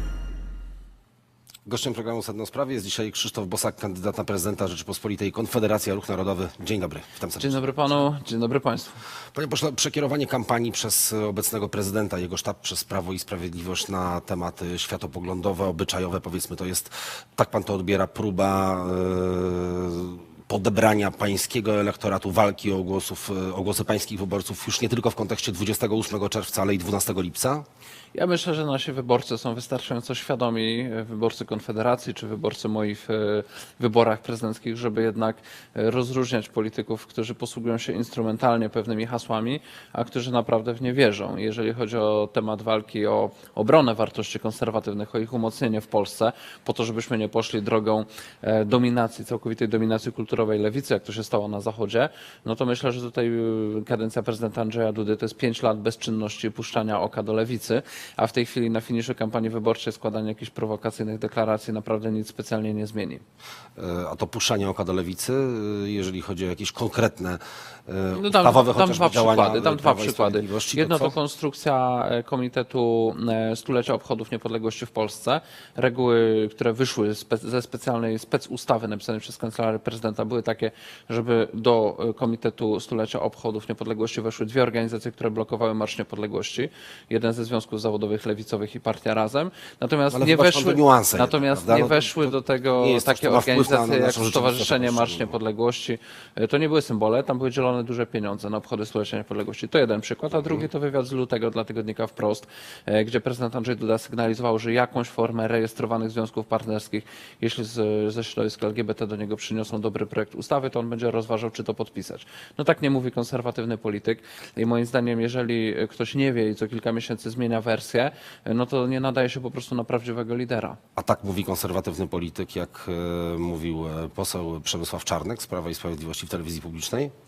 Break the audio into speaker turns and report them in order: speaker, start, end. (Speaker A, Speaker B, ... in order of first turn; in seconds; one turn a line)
Speaker A: 1.6-7.6
Speaker B: 7.4-9.0
Speaker A: 9.3-27.6
Speaker B: 28.1-63.2
Speaker A: 63.8-71.2
Speaker B: 68.1-120.8
Speaker A: 90.1-95.3
Speaker A: 121.0-127.1